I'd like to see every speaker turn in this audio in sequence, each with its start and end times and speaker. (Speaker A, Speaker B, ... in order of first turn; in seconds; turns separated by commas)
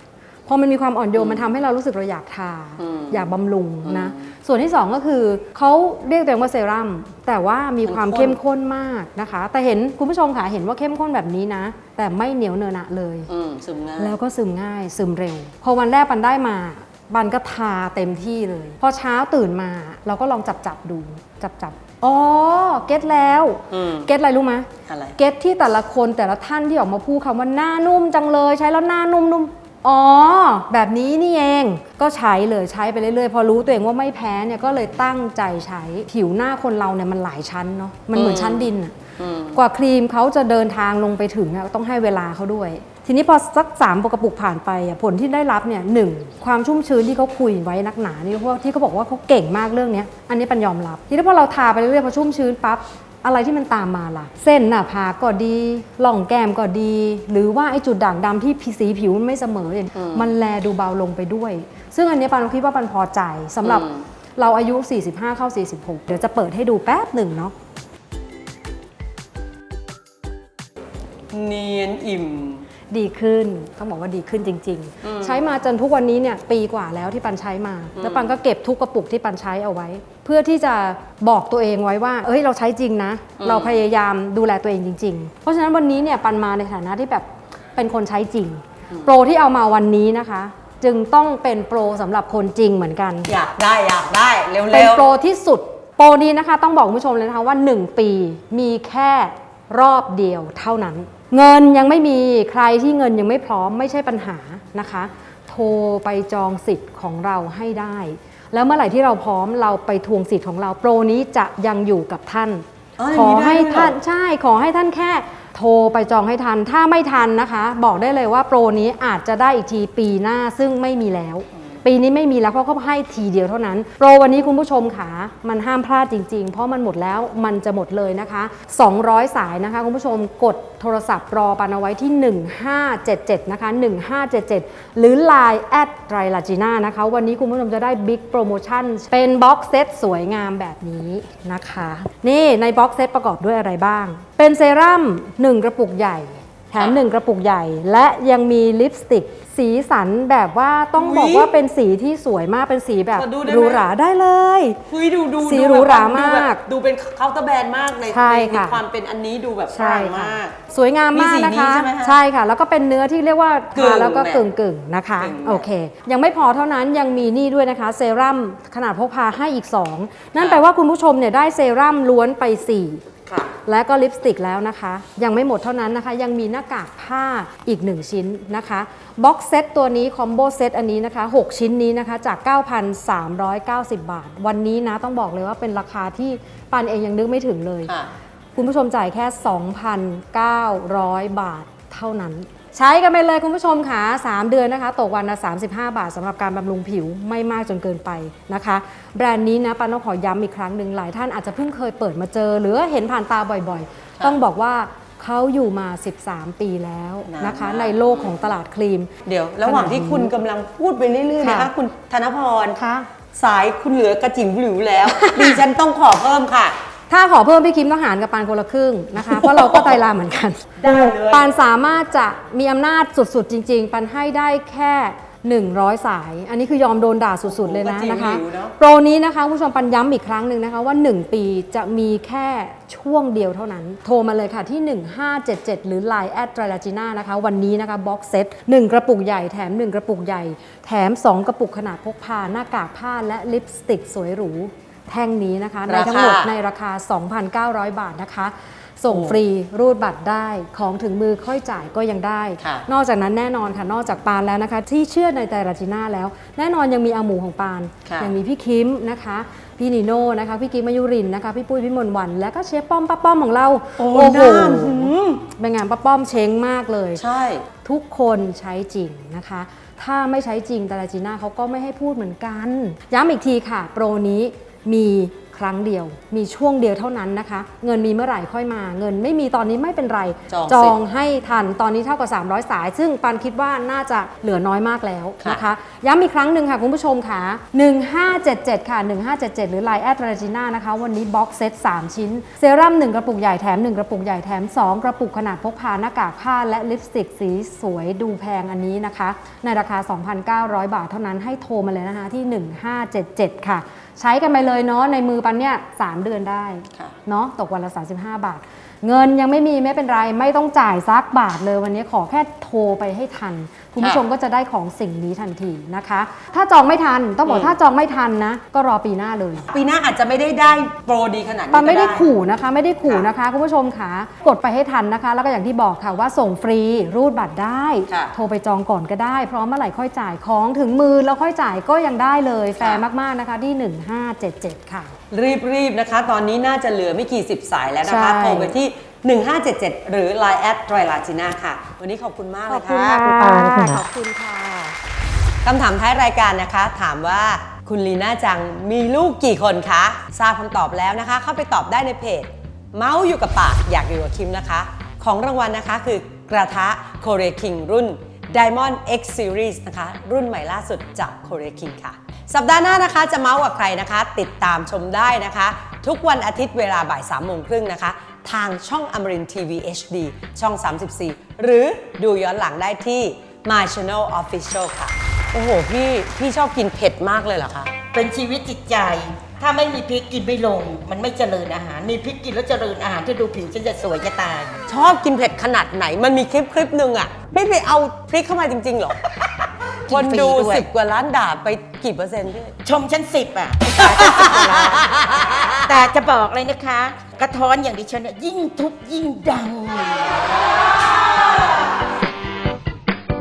Speaker A: 0.5-13.3, Speaker B: 1.1-1.5, Speaker B: 2.8-3.2, Speaker B: 3.8-4.3, Speaker B: 7.8-8.4, Speaker B: 13.3-14.2, Speaker A: 14.0-38.9, Speaker B: 23.7-24.1, Speaker B: 24.9-25.1, Speaker B: 38.1-39.6, Speaker A: 39.5-67.5, Speaker B: 59.9-60.3, Speaker B: 63.6-64.0, Speaker B: 71.3-72.6, Speaker A: 72.9-93.3, Speaker B: 75.0-75.4, Speaker B: 78.0-78.3, Speaker B: 83.4-83.8, Speaker B: 93.3-95.0, Speaker A: 94.7-154.8, Speaker B: 113.0-113.9, Speaker B: 150.9-151.6, Speaker B: 153.1-153.9, Speaker B: 154.9-160.6, Speaker A: 155.4-156.6, Speaker A: 158.1-158.8, Speaker A: 159.7-173.0, Speaker B: 161.1-162.2, Speaker B: 163.7-164.4, Speaker B: 165.2-165.7, Speaker B: 173.2-173.5, Speaker A: 173.7-187.9, Speaker A: 188.6-209.1, Speaker B: 207.2-208.4, Speaker B: 209.2-212.8, Speaker A: 209.6-210.3, Speaker A: 211.4-211.7, Speaker A: 212.8-213.1, Speaker B: 213.3-216.8, Speaker A: 215.1-215.6, Speaker A: 217.1-267.2, Speaker B: 219.2-220.0, Speaker B: 220.8-221.5, Speaker B: 227.5-228.7, Speaker B: 245.9-246.5, Speaker B: 249.1-249.4, Speaker B: 252.6-252.8, Speaker B: 258.0-258.3, Speaker B: 264.0-265.4, Speaker B: 267.1-267.6, Speaker A: 267.8-319.7, Speaker B: 280.5-280.9, Speaker B: 317.5-317.8, Speaker B: 319.7-322.3, Speaker A: 321.7-335.1, Speaker B: 332.8-333.0, Speaker B: 335.3-344.0, Speaker A: 338.0-338.7, Speaker A: 342.7-344.9, Speaker B: 345.6-377.9, Speaker C: 378.1-384.8, Speaker B: 384.9-389.2, Speaker C: 390.0-390.9, Speaker B: 390.1-392.7, Speaker C: 392.8-395.2, Speaker B: 393.9-395.9, Speaker C: 395.8-400.4